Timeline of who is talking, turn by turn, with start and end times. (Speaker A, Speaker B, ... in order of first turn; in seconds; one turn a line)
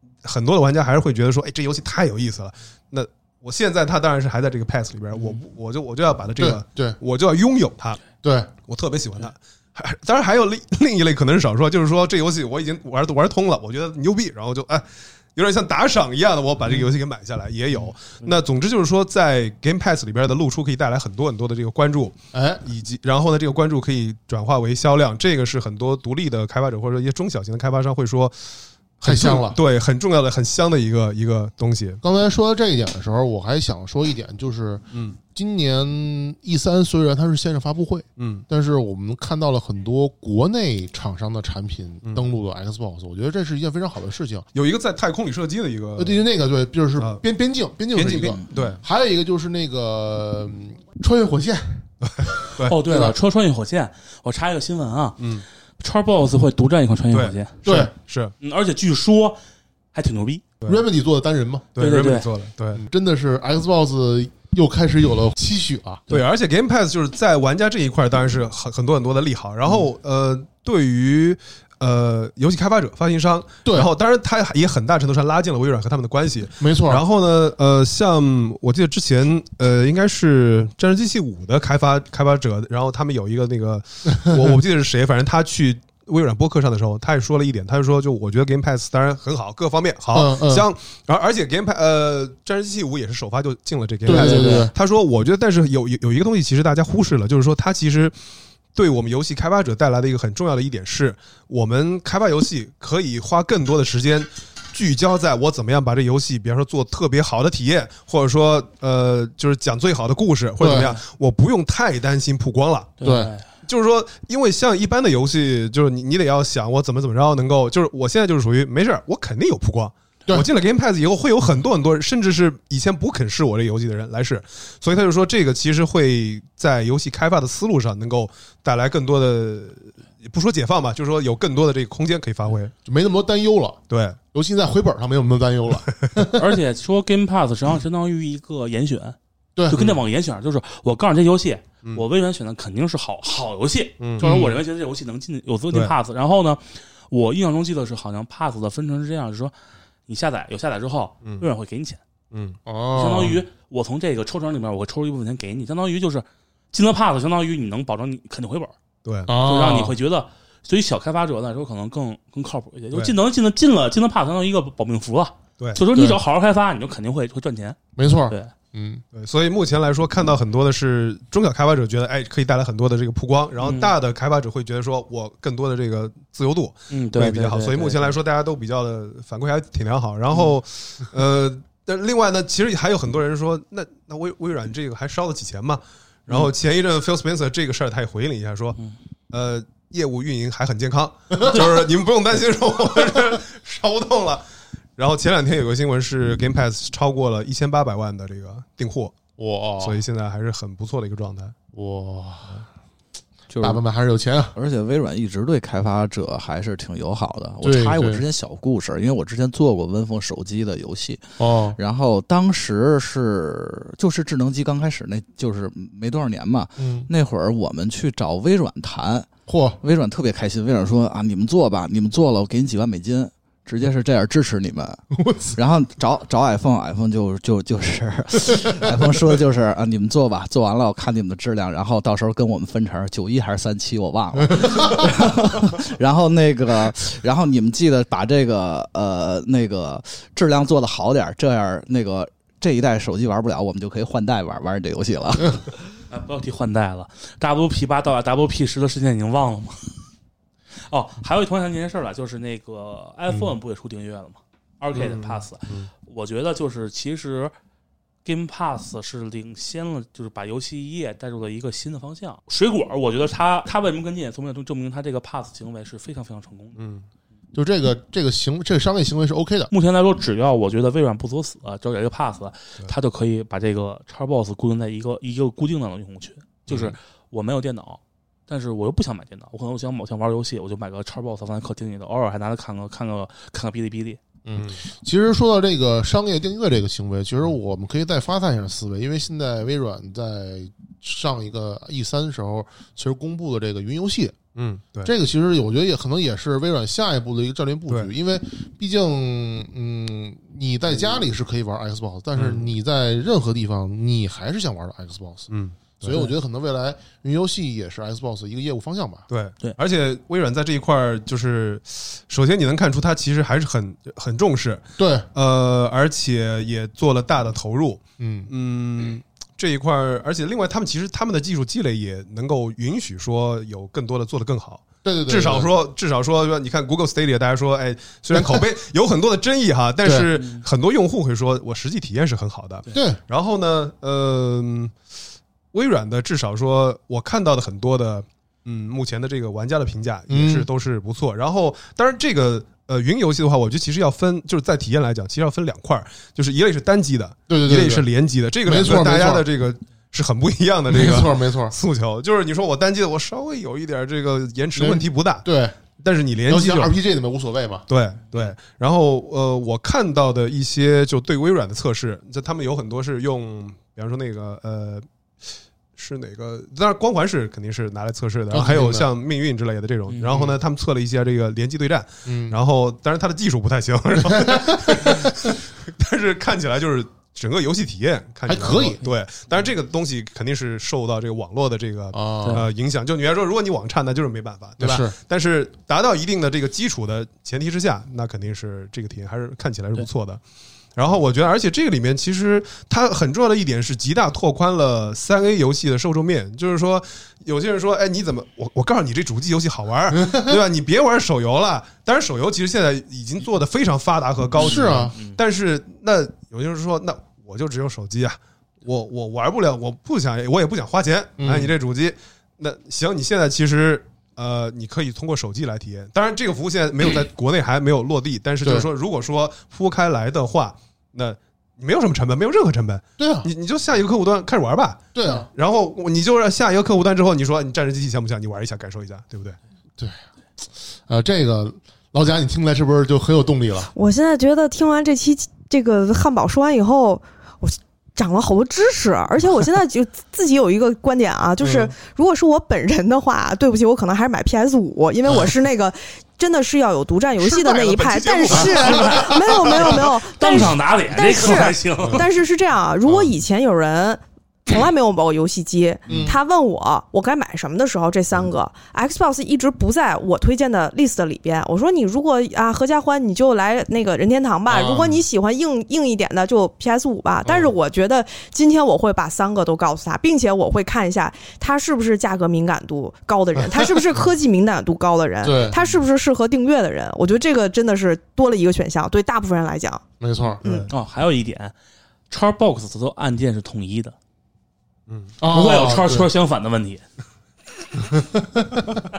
Speaker A: 0.2-8.0
Speaker B: 6.4-7.0
Speaker B: 8.2-8.5
Speaker A: 8.7-28.4
Speaker B: 22.3-22.6
Speaker A: 29.0-32.0
Speaker B: 29.0-29.6
Speaker B: 32.0-44.5
Speaker A: 38.2-38.5
Speaker A: 44.5-46.2
Speaker B: 46.0-51.9
Speaker A: 47.0-47.2
Speaker A: 47.9-48.8
Speaker C: 48.4-48.7
Speaker A: 52.0-52.8
Speaker D: 52.6-55.2
Speaker B: 52.9-53.1
Speaker A: 55.2-55.5
Speaker D: 55.8-57.6
Speaker A: 57.1-58.3
Speaker B: 57.7-57.9
Speaker D: 58.4-59.4
Speaker D: 59.9-60.5
Speaker B: 60.7-61.7
Speaker A: 61.8-62.8
Speaker D: 61.8-62.3
Speaker B: 62.8-66.2
Speaker A: 66.1-98.2
Speaker B: 73.7-73.9
Speaker B: 76.6-77.0
Speaker B: 90.1-90.7
Speaker B: 94.0-94.7
Speaker D: 94.1-94.7
Speaker A: 98.8-113.0
Speaker B: 110.6-110.9
Speaker D: 110.7-111.0
Speaker D: 113.0-113.5
Speaker B: 113.0-113.3
Speaker A: 113.7-132.7
Speaker B: 132.8-133.8
Speaker A: 133.9-134.2
Speaker B: 134.3-136.4
Speaker D: 136.4-139.2
Speaker D: 139.7-149.5
Speaker A: 139.7-140.0
Speaker A: 144.0-144.3
Speaker B: 144.2-144.6
Speaker D: 150.1-152.0
Speaker A: 152.3-152.6
Speaker B: 152.7-153.4
Speaker D: 152.9-158.8
Speaker A: 159.1-159.3
Speaker B: 159.3-159.9
Speaker D: 159.3-168.5
Speaker B: 165.9-166.2
Speaker B: 168.0-169.0
Speaker A: 169.1-188.8
Speaker D: 173.6-173.9
Speaker D: 176.9-178.2
Speaker A: 189.3-194.4
Speaker A: 195.0-199.2
Speaker B: 199.4-200.0
Speaker A: 199.8-201.6
Speaker B: 201.7-202.6
Speaker C: 203.5-203.8
Speaker B: 203.6-204.6
Speaker C: 204.6-211.2
Speaker B: 207.6-208.2
Speaker B: 211.4-211.8
Speaker C: 211.8-219.3
Speaker B: 216.8-217.1
Speaker B: 219.5-219.8
Speaker C: 219.8-225.0
Speaker B: 225.2-225.6
Speaker C: 225.6-245.7
Speaker D: 246.1-249.9
Speaker D: 250.9-257.5
Speaker A: 254.9-255.9
Speaker D: 258.2-266.8
Speaker A: 266.8-267.1
Speaker B: 267.5-269.7
Speaker D: 269.7-284.2
Speaker B: 284.5-294.4
Speaker A: 284.6-284.8
Speaker A: 294.6-295.1
Speaker B: 295.0-305.5
Speaker A: 302.4-302.7
Speaker A: 305.5-306.2
Speaker B: 306.0-309.3
Speaker A: 309.3-334.9
Speaker B: 315.0-315.3
Speaker B: 318.2-318.5
Speaker B: 325.1-325.7
Speaker B: 328.3-328.6
Speaker B: 330.0-330.3
Speaker D: 330.4-330.7
Speaker B: 332.9-333.2
Speaker A: 335.7-355.5
Speaker B: 340.3-340.7
Speaker B: 347.5-348.1
Speaker B: 348.6-349.5
Speaker B: 350.9-351.8
Speaker B: 354.8-355.8
Speaker A: 356.0-356.9
Speaker B: 356.5-357.9
Speaker A: 357.9-365.1
Speaker A: 366.0-390.4
Speaker B: 368.5-369.1
Speaker D: 370.1-370.4
Speaker B: 372.3-372.6
Speaker B: 374.2-375.3
Speaker B: 378.5-379.0
Speaker B: 382.1-382.6
Speaker B: 384.8-385.1
Speaker A: 391.0-429.6
Speaker B: 404.6-405.1
Speaker D: 404.7-405.4
Speaker B: 411.4-411.7
Speaker B: 418.6-418.9
Speaker B: 423.2-423.5
Speaker B: 425.1-425.5
Speaker B: 430.8-433.9
Speaker E: 433.9-480.0
Speaker A: 441.6-441.9
Speaker A: 447.4-450.1
Speaker D: 450.3-452.2
Speaker A: 453.1-453.3
Speaker B: 456.1-456.4
Speaker B: 464.7-465.2
Speaker B: 467.4-467.7
Speaker B: 475.4-475.8
Speaker B: 480.2-480.6
Speaker A: 480.6-480.9
Speaker D: 480.9-481.7
Speaker D: 482.3-484.2
Speaker A: 485.1-485.3
Speaker B: 485.4-486.3
Speaker D: 485.5-487.0
Speaker B: 488.1-489.1